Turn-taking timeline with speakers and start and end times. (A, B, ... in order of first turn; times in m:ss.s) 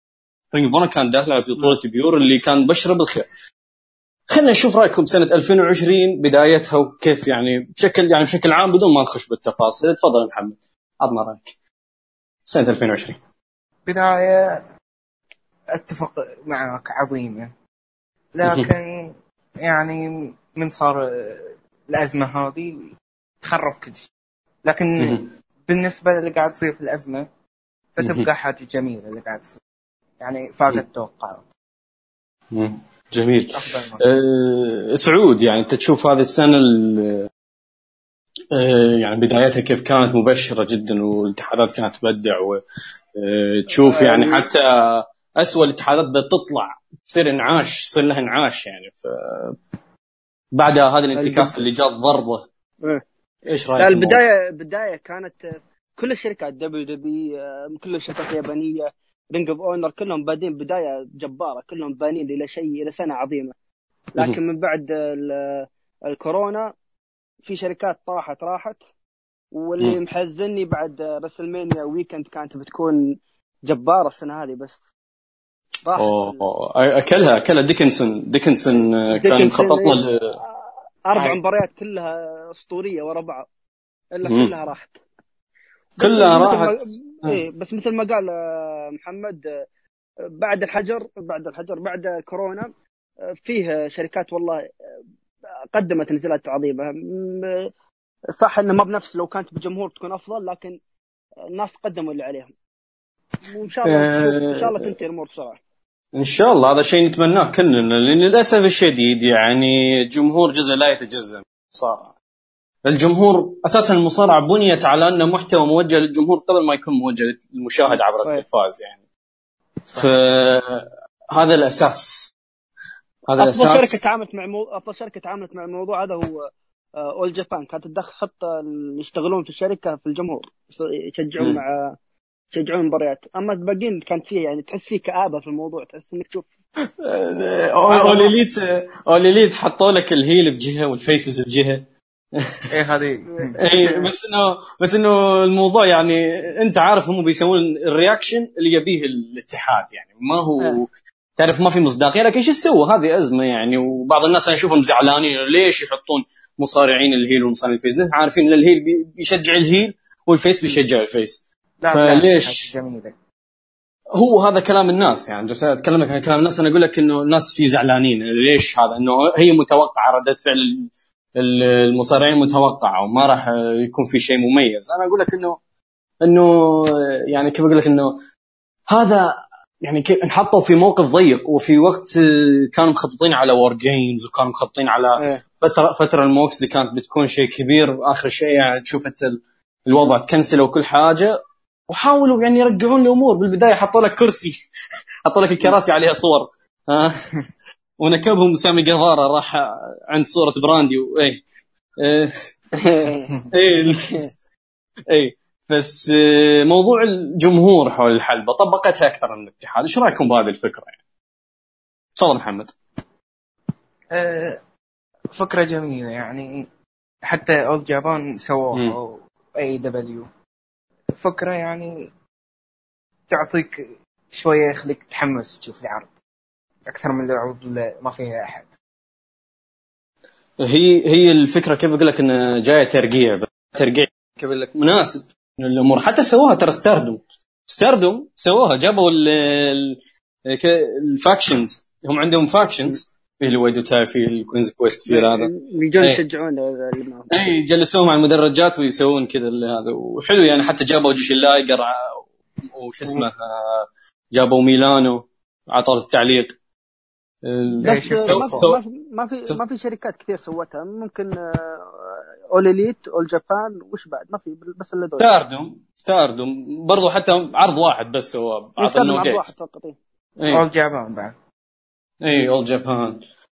0:00.5-0:03.3 A
0:04.3-0:11.5 A
0:12.5-0:13.2 A
0:13.9-0:14.6 B
0:15.7-0:17.5 B
0:18.4-0:24.1 B
0:24.7-0:27.3 B
0:25.0-0:25.3 A
0:28.0-0:29.6 B
0:28.0-0:28.3 A
0:30.2-0:31.5 B
0:32.5-0:37.3 A
0:33.5-0:34.0 B
0:38.5-0:42.6 A
0:43.2-0:49.6 A
0:43.7-0:44.5 C
0:50.6-0:52.4 A
0:51.2-0:51.6 C
0:53.5-0:54.2 A
0:53.8-1:03.6 C
1:04.2-1:06.7 C
1:07.4-1:08.8 C
1:09.5-1:13.0 C
1:13.7-1:14.8 C
1:15.8-1:16.4 C
1:16.0-1:20.4 A
1:19.2-1:20.0 C
1:20.6-1:23.5 C
1:21.1-1:21.4 B
1:24.2-1:25.0 C
1:24.2-1:24.5 A
1:26.0-1:27.4 A
1:26.0-1:28.3 C
1:28.9-1:29.5 C
1:30.4-1:32.7 C
1:33.4-1:34.6 C
1:35.7-1:37.7 C
1:38.4-1:40.8 C
1:41.5-1:42.5 C
1:43.5-1:45.6 C
1:43.8-1:44.9 A
1:46.2-1:52.1 A
1:52.9-1:59.0 A
1:57.9-1:58.4 C
2:00.0-2:02.3 A
2:03.3-2:04.0 A
2:03.4-2:06.5 C
2:07.0-2:12.0 C
2:12.5-2:16.5 C
2:17.0-2:21.8 A
2:17.9-2:18.4 C
2:22.4-2:22.6 A
2:22.7-2:23.6 B
2:23.4-2:24.1 C
2:23.6-2:30.8 A
2:31.4-2:41.4 A
2:41.8-2:43.1 B
2:41.9-2:42.7 A
2:44.2-2:55.6 A
2:56.2-2:58.2 A
2:58.9-3:11.4 A
3:11.9-3:14.6 A
3:15.2-3:17.3 A
3:18.0-3:21.4 A
3:22.0-3:22.3 A
3:22.8-3:23.3 C
3:23.5-3:24.2 A
3:25.1-3:30.9 A
3:32.2-3:32.7 A
3:34.1-3:34.6 B
3:35.3-3:36.6 B
3:37.3-3:40.3 B
3:41.2-3:41.9 B
3:43.3-3:46.1 B
3:46.9-3:48.7 B
3:50.6-4:05.5 A
4:05.1-4:07.4 C
4:07.3-4:16.5 A
4:17.4-4:18.8 A
4:17.8-4:18.7 B
4:17.8-4:25.3 C
4:25.2-4:29.5 A
4:28.8-4:30.0 C
4:30.4-4:30.6 A
4:30.5-4:31.4 B
4:32.2-4:33.2 A